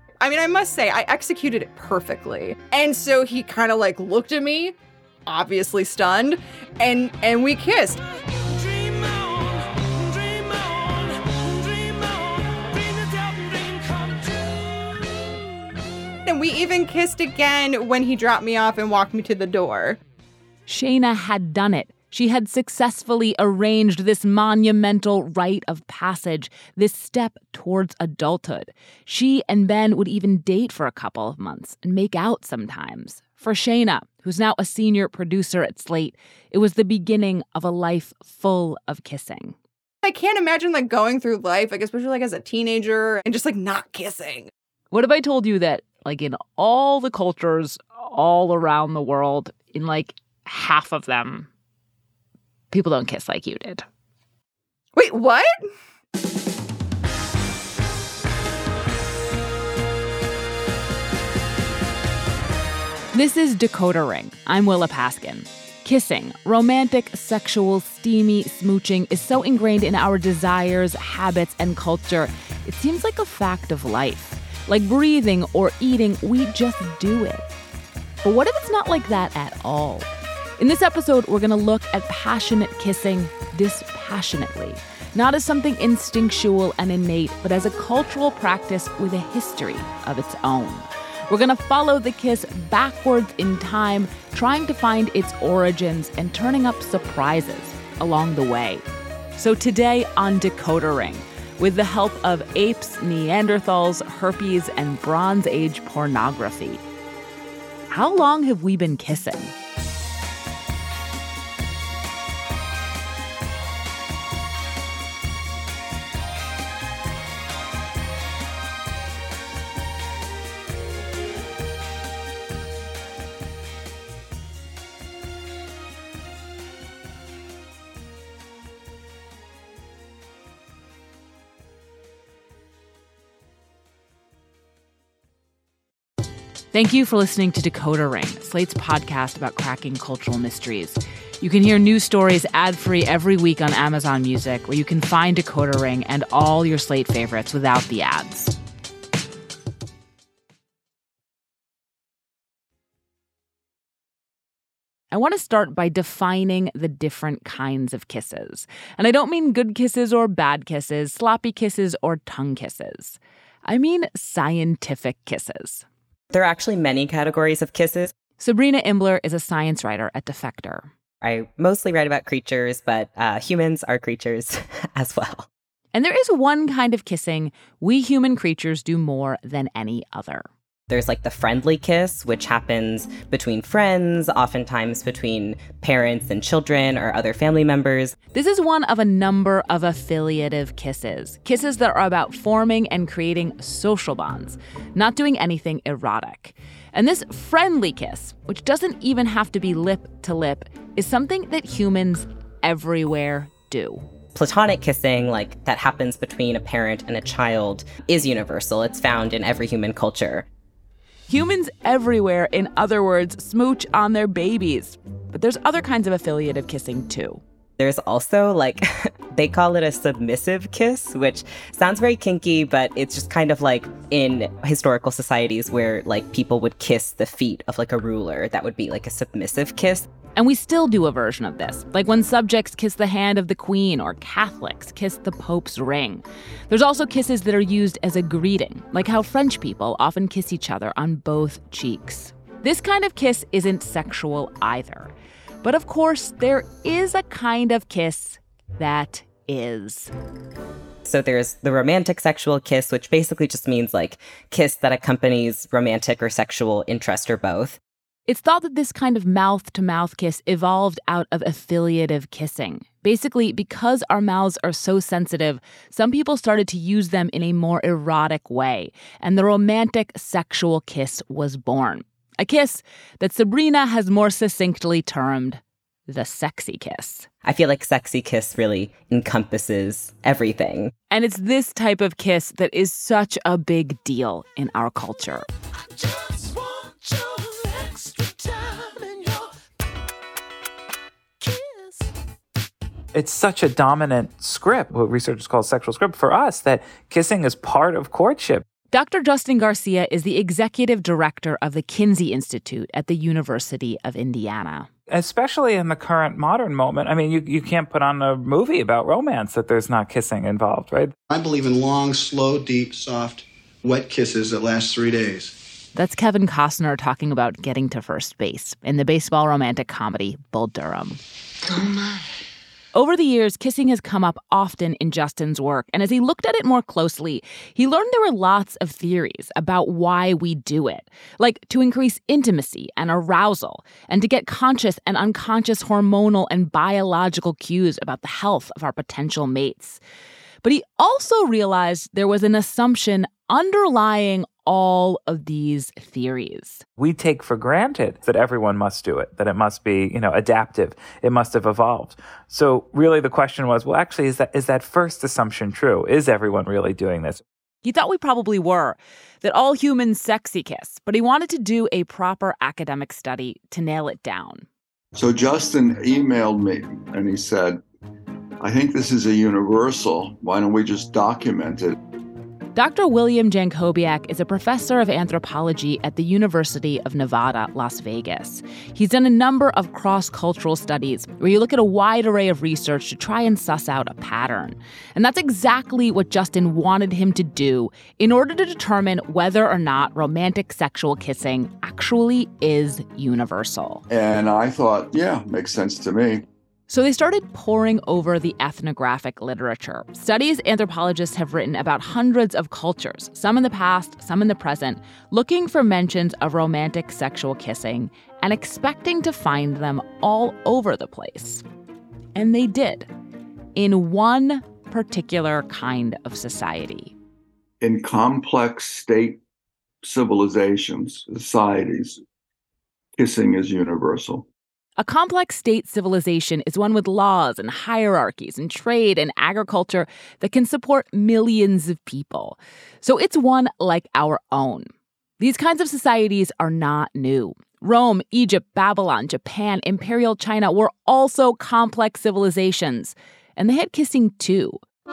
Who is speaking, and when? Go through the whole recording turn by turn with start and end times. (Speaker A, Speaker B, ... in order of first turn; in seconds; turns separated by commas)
Speaker A: 0.2-4.8, Speaker A: 5.3-8.0, Speaker A: 8.8-9.1, Speaker A: 16.3-20.0, Speaker B: 20.7-39.5, Speaker A: 40.0-44.5, Speaker B: 44.9-51.5, Speaker B: 52.7-53.8, Speaker A: 55.0-55.7, Speaker B: 63.1-77.5, Speaker B: 78.2-80.1, Speaker B: 80.6-98.8, Speaker B: 99.4-106.8, Speaker B: 107.9-109.5, Speaker B: 136.7-148.6, Speaker B: 155.1-165.8, Speaker C: 166.3-168.1, Speaker B: 168.4-170.9, Speaker C: 171.2-175.5, Speaker B: 175.9-180.5, Speaker C: 180.9-188.2, Speaker B: 188.3-204.0, Speaker C: 204.3-210.5, Speaker B: 211.3-217.4, Speaker C: 217.8-230.1, Speaker B: 230.3-245.1, Speaker B: 245.6-250.1, Speaker C: 251.1-257.8, Speaker B: 258.3-277.3, Speaker C: 277.4-280.9, Speaker B: 281.1-285.5, Speaker D: 293.1-298.6, Speaker B: 298.9-304.9, Speaker D: 305.1-311.1, Speaker E: 311.3-315.6, Speaker B: 315.9-321.2, Speaker B: 322.9-340.0, Speaker B: 340.6-346.9, Speaker D: 347.0-357.4, Speaker B: 357.8-364.7, Speaker F: 365.1-367.8, Speaker F: 368.6-372.0, Speaker B: 372.8-394.0, Speaker F: 394.1-396.4, Speaker B: 396.9-411.6, Speaker B: 412.4-413.1, Speaker B: 413.8-417.1, Speaker F: 417.8-419.4, Speaker F: 420.0-422.2, Speaker F: 423.2-424.5, Speaker B: 425.0-434.9, Speaker B: 435.4-444.8